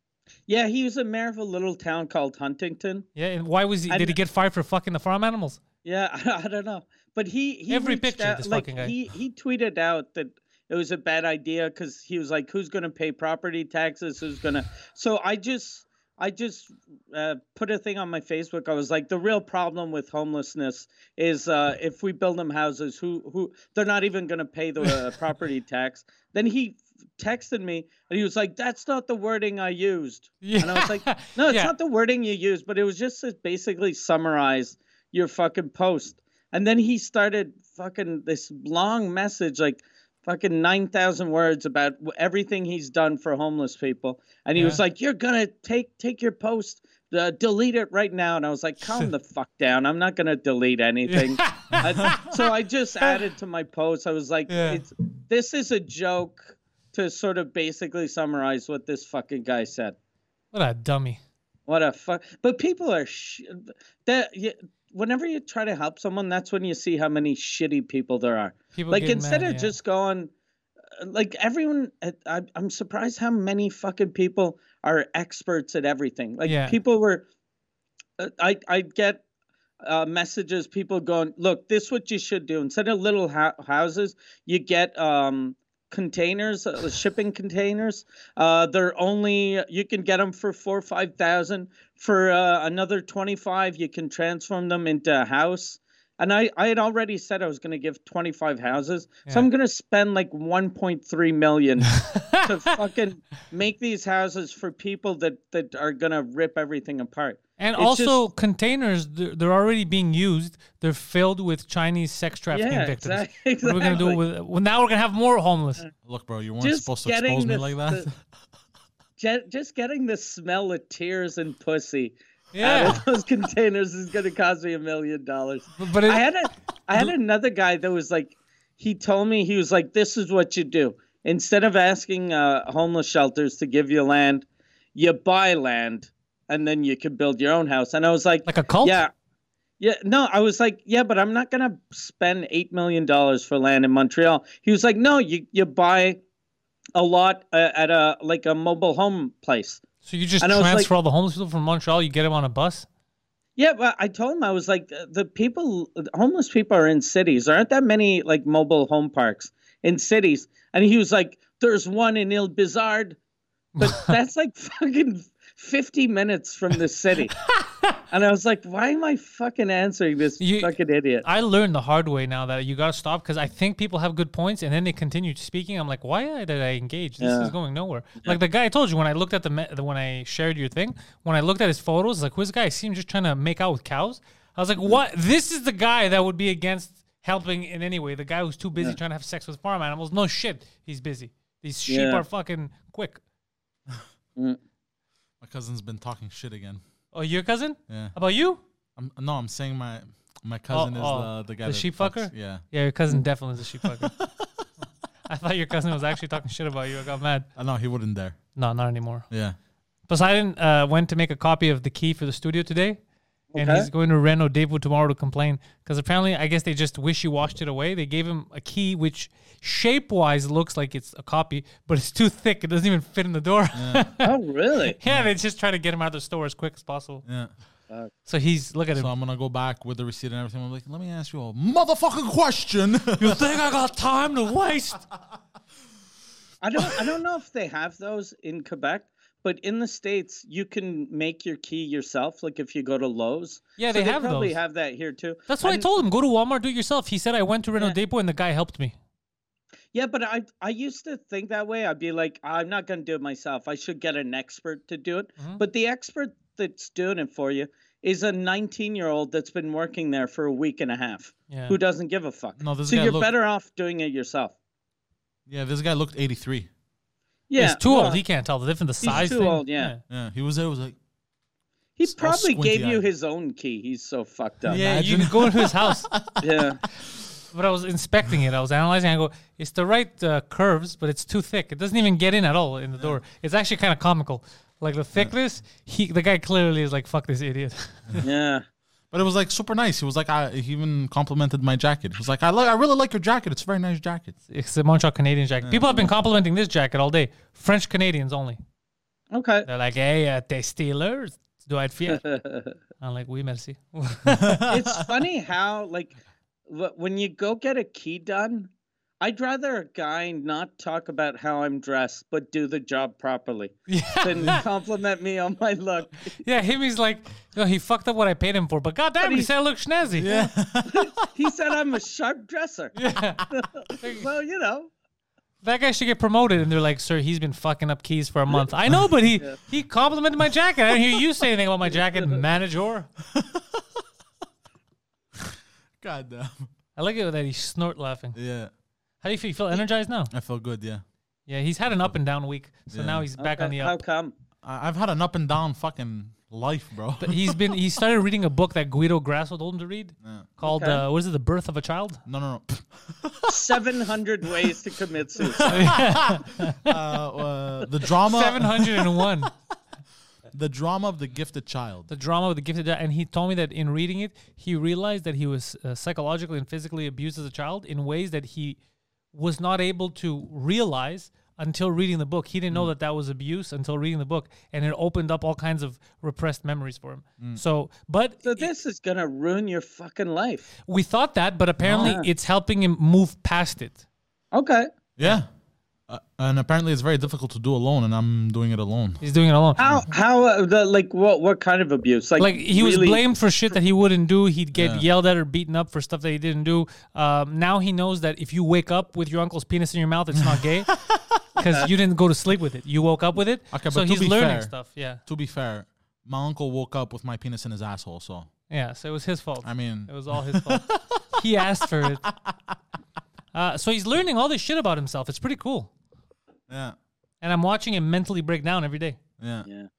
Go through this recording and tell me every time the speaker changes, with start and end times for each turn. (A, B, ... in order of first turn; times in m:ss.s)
0:00.5-0:03.1 A
0:03.2-0:05.6 B
0:03.9-0:04.2 A
0:05.8-1:00.0 A
0:07.7-0:08.9 B
0:30.4-0:31.7 B
0:48.8-0:49.1 B
0:51.1-0:52.5 B
0:51.8-0:52.2 C
0:54.5-0:54.8 B
1:00.5-1:01.2 B
1:01.7-1:10.3 A
1:08.7-1:09.7 B
1:11.0-1:17.2 A
1:16.4-1:16.8 B
1:18.2-1:19.2 A
1:19.8-1:48.2 A
1:41.9-1:42.8 B
1:47.6-1:55.8 B
1:52.5-1:54.2 A
1:56.0-1:58.1 C
1:56.6-1:58.1 A
1:59.2-2:19.1 A
2:02.5-2:03.0 B
2:05.8-2:06.2 B
2:18.5-2:19.0 B
2:19.8-2:26.2 A
2:27.0-2:29.8 A
2:30.0-2:32.9 B
2:30.4-2:30.9 A
2:33.6-2:43.2 A
2:43.8-2:44.2 B
2:43.8-2:47.4 A
2:47.4-2:48.0 B
2:48.1-2:51.3 A
2:50.4-2:50.7 B
2:51.2-3:13.2 B
2:57.2-2:57.5 A
3:11.9-3:12.2 A
3:15.4-3:16.8 C
3:17.1-3:18.6 B
3:17.9-3:18.2 C
3:19.0-3:22.6 C
3:20.7-3:24.2 B
3:23.8-3:24.5 C
3:25.3-3:27.5 B
3:27.6-3:28.4 C
3:28.6-3:29.3 B
3:29.3-3:29.6 C
3:30.1-3:33.0 B
3:33.5-3:33.9 A
3:33.6-3:44.3 B
3:43.8-3:44.1 C
3:44.2-3:45.0 A
3:44.9-3:47.2 B
3:47.2-3:47.5 C
3:48.3-3:49.1 B
3:49.0-3:53.5 C
3:53.2-3:55.0 B
3:56.6-4:05.9 A
4:03.8-4:04.6 B
4:05.5-4:08.9 B
4:09.9-4:24.5 A
4:21.5-4:21.8 B
4:22.6-4:23.3 C
4:25.5-4:26.7 C
4:27.5-4:28.2 A
4:27.6-4:30.0 B
4:29.0-4:29.9 A
4:30.1-4:31.0 C
4:32.0-4:34.8 A
4:32.0-4:33.0 C
4:34.7-4:37.2 C
4:34.7-4:36.1 B
4:36.4-4:36.8 A
4:37.5-4:48.2 B
4:48.2-4:48.6 A
4:49.1-4:54.4 C
4:54.5-4:58.6 B
4:55.6-4:56.0 C
4:59.3-4:59.7 A
4:59.7-5:02.2 B
5:02.1-5:02.8 A
5:03.0-5:04.6 B
5:04.3-5:05.1 C
5:04.7-5:06.2 A
5:06.7-5:08.7 A
5:09.2-5:16.4 A
5:13.9-5:14.6 B
5:16.3-5:20.3 B
5:19.2-5:19.5 A
5:20.1-5:23.0 A
5:20.2-5:21.3 C
5:23.0-5:24.3 B
5:23.5-5:24.9 A
5:25.6-5:33.1 B
5:31.9-5:32.4 A
5:33.3-5:33.8 C
5:36.0-5:36.7 C
5:37.0-5:38.4 B
5:38.4-5:38.7 C
5:39.2-5:40.3 B
5:40.3-5:41.0 C
5:41.5-5:44.0 B
5:42.9-5:43.3 C
5:43.4-5:44.3 A
5:44.6-5:48.0 C
5:47.2-5:52.2 B
5:50.2-5:50.5 C
5:50.6-5:51.0 A
5:52.3-5:53.8 C
5:53.5-5:56.1 A
5:54.5-5:54.8 C
5:55.4-5:59.3 C
5:55.7-5:57.0 B
5:58.2-5:59.5 B
6:00.5-6:02.1 C
6:02.1-6:08.8 B
6:09.3-6:18.7 B
6:18.4-6:20.7 A
6:20.9-6:24.0 B
6:21.8-6:22.2 C
6:24.5-6:24.9 A
6:25.2-6:25.5 C
6:26.1-6:29.2 C
6:29.2-6:29.8 B
6:29.8-6:30.1 C
6:29.8-6:33.2 A
6:32.4-6:40.9 B
6:34.8-6:35.0 C
6:40.5-6:41.2 C
6:41.6-6:45.2 B
6:43.7-6:48.5 C
6:48.7-6:52.2 B
6:49.6-6:51.4 C
6:52.3-6:52.8 C
6:53.5-6:55.9 B
6:56.7-6:57.0 C
6:57.4-6:59.2 B
6:59.4-6:59.7 C